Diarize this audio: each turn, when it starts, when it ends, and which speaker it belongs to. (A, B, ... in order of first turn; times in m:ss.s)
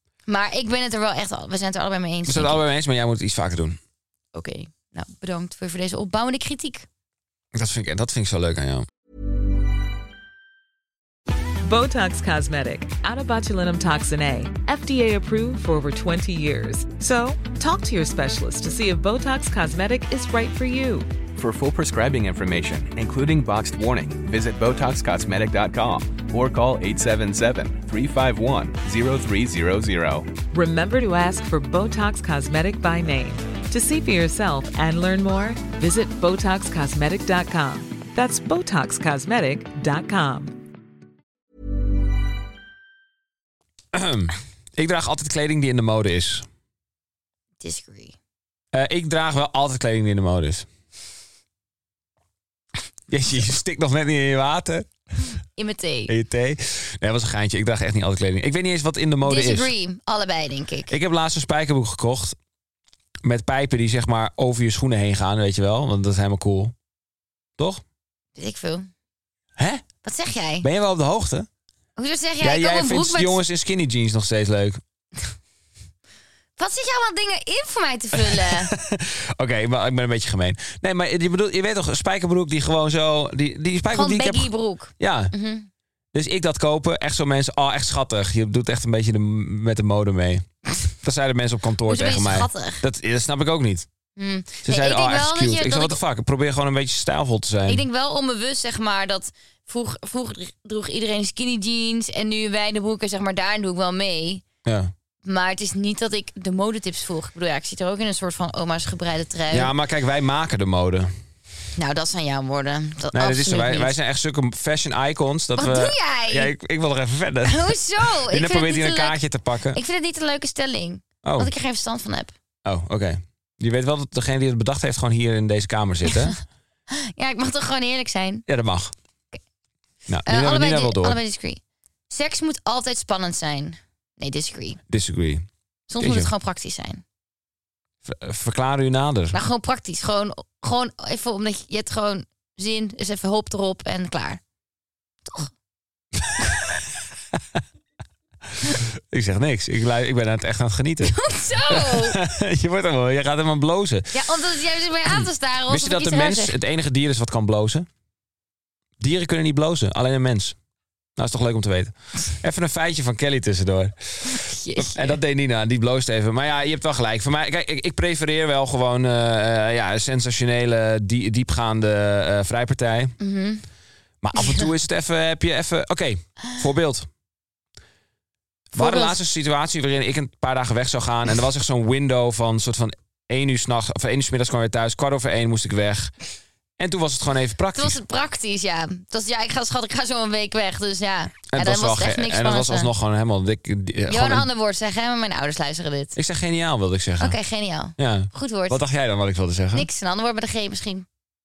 0:00.3-0:02.6 A
0:02.3-0:03.8 B
0:04.3-0:06.9 A
0:07.5-0:08.9 B
0:11.6-0:21.1 C
0:21.4-0:30.3 D
0:30.5-0:40.6 C
0:43.9-0:46.5 B
0:47.6-0:48.2 A
0:48.7-0:50.7 B
0:53.1-0:54.9 B
0:55.6-0:56.1 A
0:56.1-0:59.7 B
0:59.2-1:00.9 A
1:00.9-1:02.4 B
1:03.2-1:06.8 B
1:08.4-1:08.9 A
1:09.6-1:09.8 B
1:10.0-1:10.7 A
1:10.6-1:11.5 B
1:12.0-1:13.4 A
1:12.4-1:14.8 B
1:16.6-1:18.7 A
1:18.1-1:25.3 B
1:23.9-1:25.7 A
1:26.1-1:30.4 B
1:31.0-1:33.9 B
1:31.9-1:32.8 A
1:34.2-1:36.0 A
1:34.6-1:37.8 B
1:37.7-1:44.4 A
1:44.6-1:44.9 B
1:45.2-1:49.7 A
1:49.5-1:51.1 B
1:51.8-1:53.9 A
1:53.1-1:59.8 B
1:55.6-1:56.5 A
1:57.4-1:59.2 A
1:59.7-2:02.3 A
2:01.2-2:01.5 B
2:02.6-2:06.4 B
2:06.9-2:08.4 A
2:08.5-2:08.9 B
2:10.1-2:11.2 B
2:10.3-2:14.8 A
2:14.9-2:15.5 B
2:15.9-2:17.0 A
2:16.0-2:16.3 B
2:18.0-2:19.4 B
2:19.3-2:24.4 A
2:25.2-2:25.5 A
2:26.2-2:27.6 B
2:28.6-2:31.2 B
2:31.0-2:32.2 A
2:31.7-2:34.2 B
2:34.1-2:36.6 A
2:35.1-2:37.9 B
2:39.0-2:40.6 B
2:41.2-2:53.2 B
2:44.2-2:45.2 A
2:53.2-2:53.6 A
2:54.2-2:57.1 B
2:54.4-2:54.7 A
2:58.7-3:06.1 B
2:58.8-2:59.2 A
3:06.8-3:08.0 B
3:07.8-3:12.9 A
3:11.5-3:14.5 B
3:14.1-3:16.2 A
3:16.2-3:17.4 B
3:17.2-3:18.8 A
3:18.0-3:19.9 B
3:19.7-3:21.1 A